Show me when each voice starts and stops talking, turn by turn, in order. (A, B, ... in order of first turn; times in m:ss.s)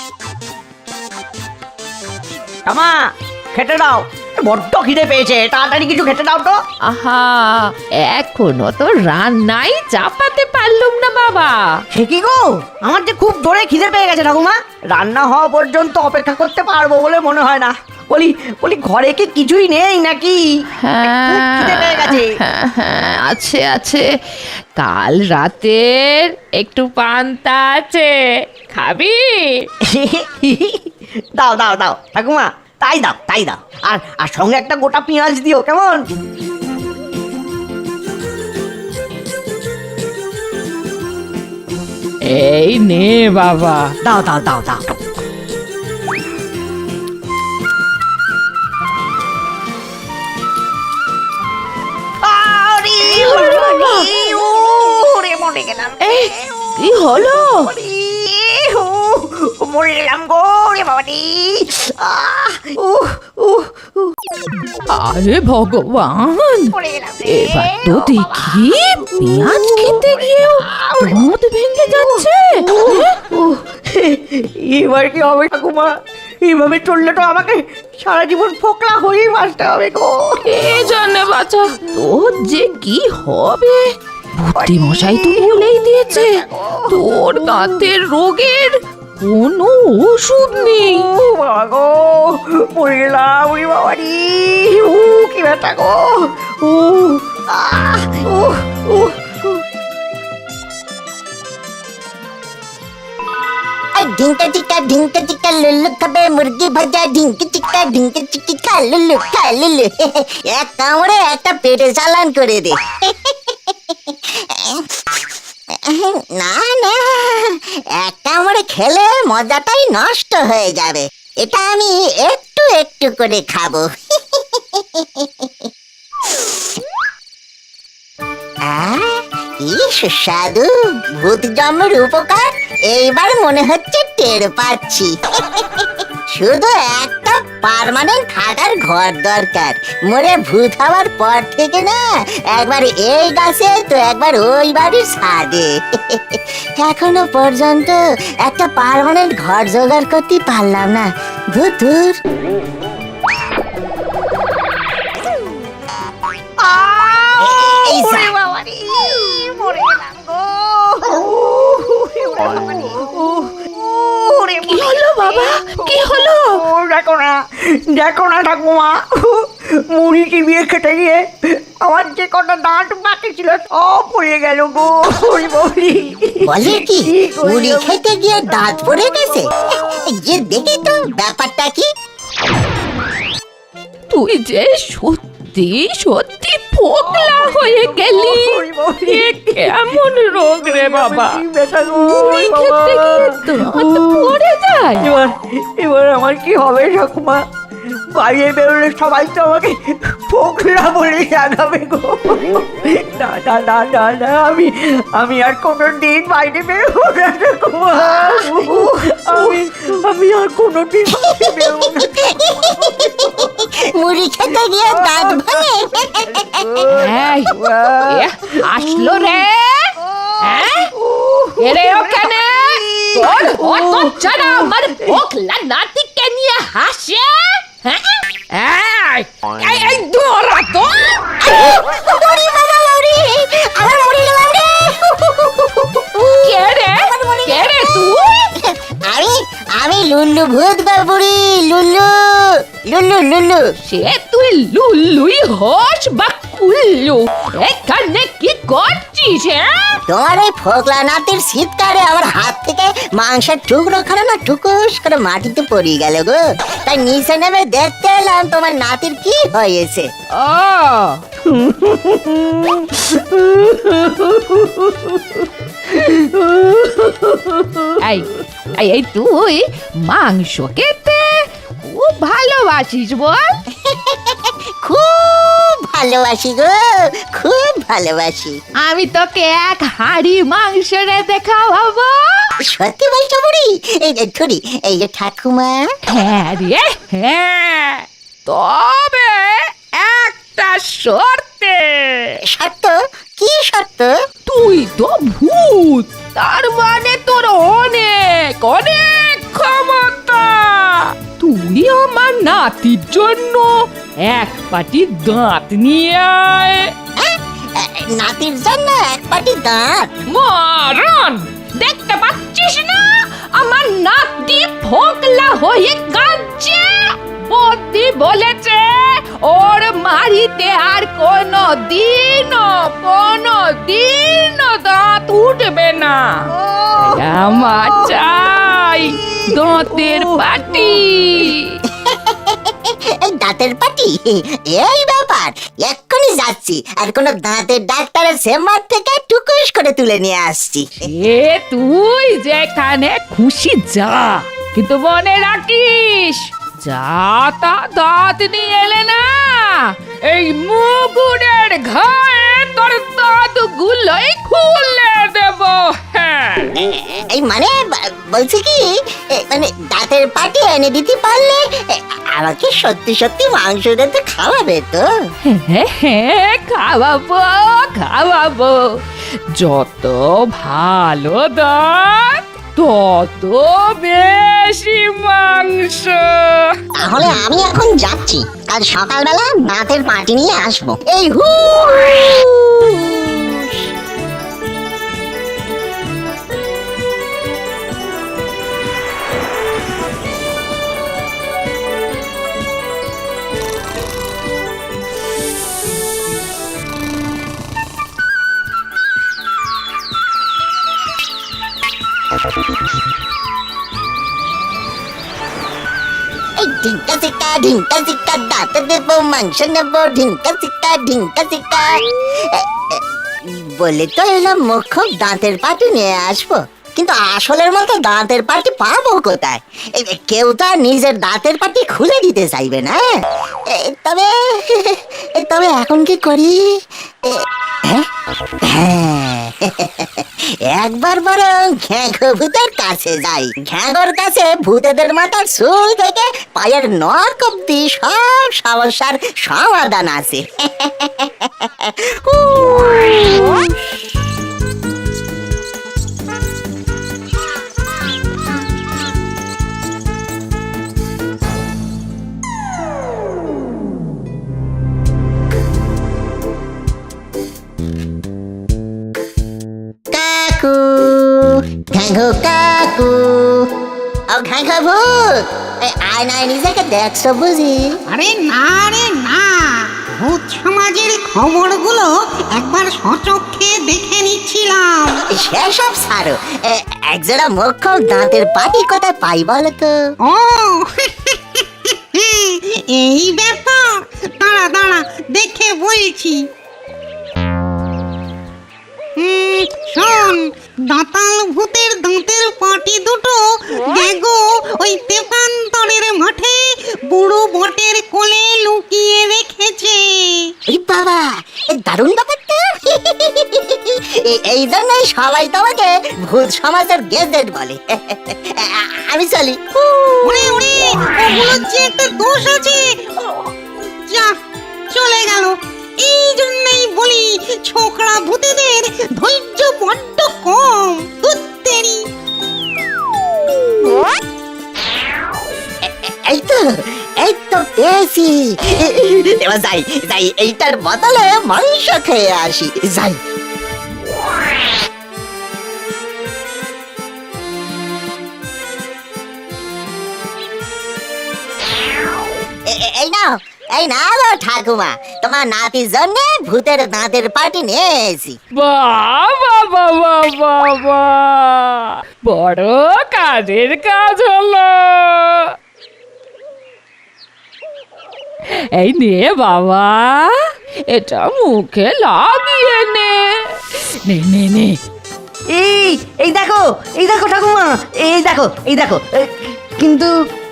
0:02.6-0:03.0 A
0:03.5-0:06.6 A
0:06.8-0:11.8 B
0:11.9-0:20.4 A
0:20.8-0:24.1 B
0:21.2-0:22.3 A
0:24.8-0:29.7 B
0:29.9-0:36.0 A
0:42.2-0:43.9 B
0:44.0-0:44.8 A
0:52.2-1:04.1 A
0:53.2-0:54.1 B
0:56.0-0:57.7 B
1:04.9-1:12.7 B
1:06.7-1:11.3 A
1:11.8-1:20.4 A
1:20.4-1:23.8 B
1:24.4-1:31.1 B
1:24.5-1:27.8 A
1:30.8-1:39.6 A
1:44.0-2:05.7 C
2:06.3-2:06.6 C
2:08.6-2:32.2 C
2:36.6-2:59.5 A
2:37.4-2:38.3 C
2:44.6-2:46.6 B
2:56.4-3:01.9 C
3:04.1-3:15.1 B
3:07.0-3:14.4 A
3:15.0-3:17.4 A
3:18.1-3:33.6 A
3:28.1-3:28.6 C
3:31.2-3:36.8 C
3:34.9-3:39.4 A
3:36.9-3:40.9 B
3:40.1-3:45.2 A
3:41.6-3:51.3 B
3:51.4-4:03.6 C
3:56.2-3:58.5 B
4:03.8-4:10.0 B
4:10.1-4:20.1 C
4:20.4-4:21.2 B
4:21.4-4:28.0 A
4:28.0-4:33.6 B
4:33.8-4:38.6 C
4:38.8-4:42.5 B
4:42.6-4:45.9 C
4:46.1-4:52.4 B
4:52.5-4:54.1 C
4:54.4-5:06.9 B
5:07.2-5:10.1 C
5:10.3-5:31.8 B
5:26.5-5:28.1 A
5:29.2-5:31.0 A
5:32.1-5:41.1 C
5:41.0-5:56.8 B
5:56.9-6:05.1 C
6:05.4-6:08.9 B
6:09.5-6:16.8 B
6:17.0-6:23.8 C
6:46.6-7:03.0 C
7:03.7-7:08.1 C
7:08.6-7:23.9 C
7:40.1-7:43.7 C
7:44.3-7:48.0 C
7:48.1-7:55.2 D
7:55.3-8:00.0 C
8:00.2-8:06.4 D
8:09.2-8:20.5 D
8:20.7-8:30.5 C
8:30.2-8:33.5 D
8:34.1-8:34.3 D
8:34.9-8:42.0 D
8:45.8-8:53.2 C
9:02.7-9:08.4 C
9:08.6-9:15.5 B
9:18.7-9:24.8 B
9:25.5-9:30.1 A